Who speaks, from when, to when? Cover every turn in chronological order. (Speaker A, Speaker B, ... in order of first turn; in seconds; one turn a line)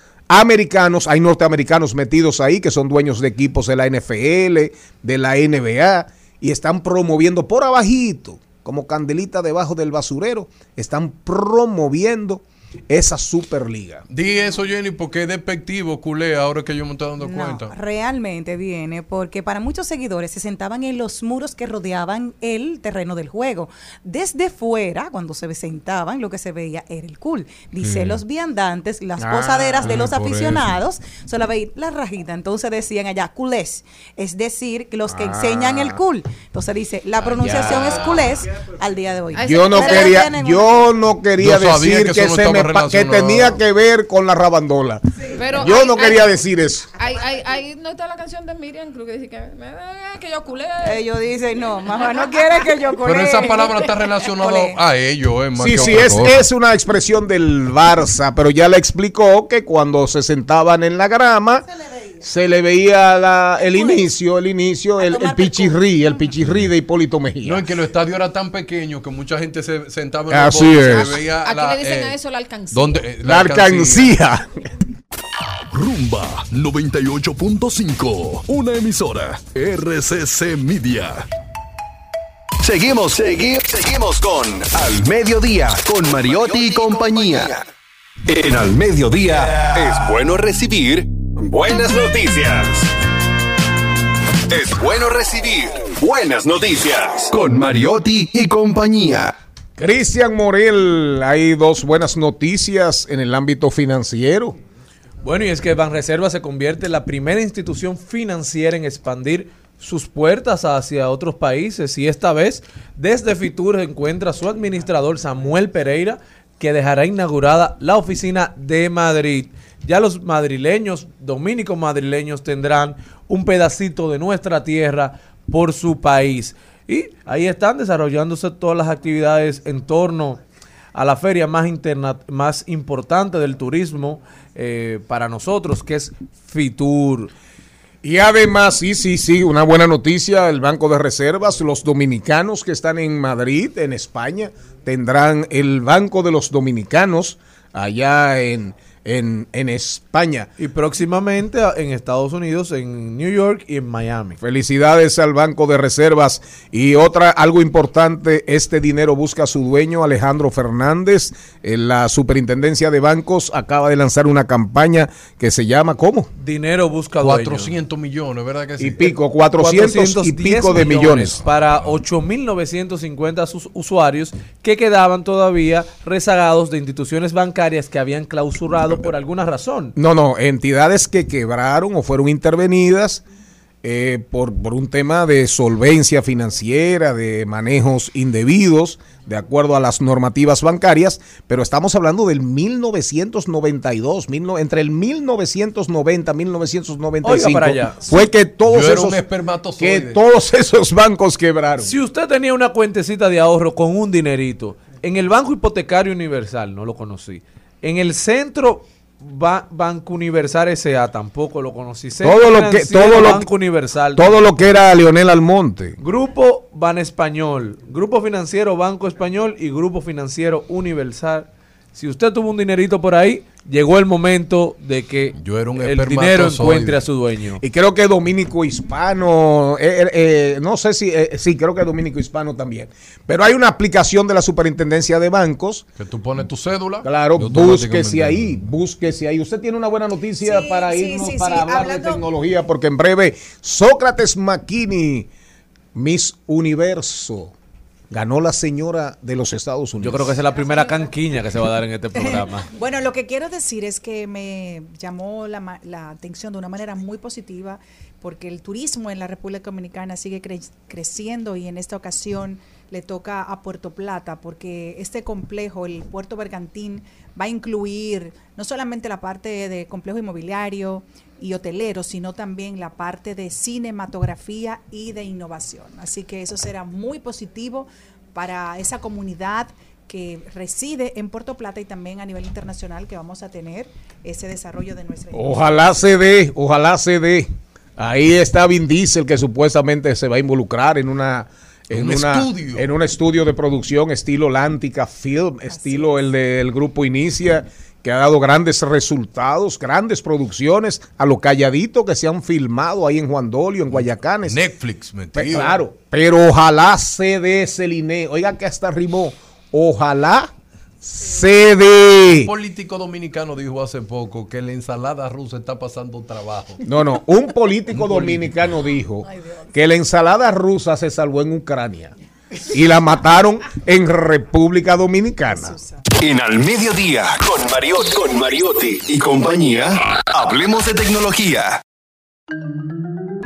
Speaker A: 0.3-14.0
Speaker B: 14.1-17.7
Speaker C: 17.2-40.9
Speaker B: 27.8-28.2
Speaker A: 29.2-30.0
Speaker B: 29.8-30.8
Speaker A: 35.1-36.0
Speaker A: 37.4-37.8
Speaker B: 37.4-38.1
Speaker D: 39.3-40.3
Speaker A: 39.4-46.9
Speaker B: 41.4-43.6
Speaker D: 45.3-46.3
Speaker D: 47.0-51.1
Speaker C: 50.8-54.8
Speaker D: 52.0-52.9
Speaker B: 53.0-56.4
Speaker A: 55.5-61.6
Speaker C: 61.7-62.2
Speaker A: 62.2-67.7
Speaker C: 63.6-64.1
Speaker C: 65.0-66.2
Speaker B: 67.4-72.2
Speaker A: 70.3-71.2
Speaker D: 70.9-73.0
Speaker B: 72.7-74.2
Speaker A: 73.2-74.7
Speaker B: 75.7-81.2
Speaker E: 82.6-87.6
Speaker B: 85.3-86.9
Speaker E: 88.3-92.8
Speaker B: 89.6-90.8
Speaker E: 94.5-99.3
Speaker B: 97.3-97.8
Speaker A: 99.8-104.6
Speaker F: 105.2-130.4
Speaker F: 130.9-137.3
Speaker A: 138.0-150.5
Speaker F: 150.6-154.4
Speaker A: 154.4-166.3
Speaker F: 166.4-167.8
Speaker B: 167.2-169.1
Speaker A: 168.8-171.4
Speaker F: 169.6-179.9
Speaker B: 171.4-172.0
Speaker A: 179.9-183.2
Speaker A: 183.8-199.2
Speaker F: 197.2-198.1
Speaker B: 198.6-200.2
Speaker A: 199.8-201.9
Speaker F: 201.8-214.4
Speaker A: 212.2-213.5
Speaker A: 214.1-216.0
Speaker F: 216.0-227.6
Speaker B: 225.3-227.0
Speaker A: 227.6-235.8
Speaker B: 236.0-238.6
Speaker A: 237.0-245.3
Speaker G: 240.4-242.2
Speaker A: 245.9-247.5
Speaker A: 248.1-250.4
Speaker F: 250.0-252.7
Speaker G: 250.5-251.1
Speaker G: 252.1-285.9
Speaker A: 285.3-304.6
Speaker B: 291.9-292.9
Speaker B: 304.4-305.8
Speaker A: 305.3-312.5
Speaker B: 312.4-316.8
Speaker A: 316.8-325.8
Speaker B: 317.9-318.6
Speaker G: 325.5-326.0
Speaker E: 326.2-331.8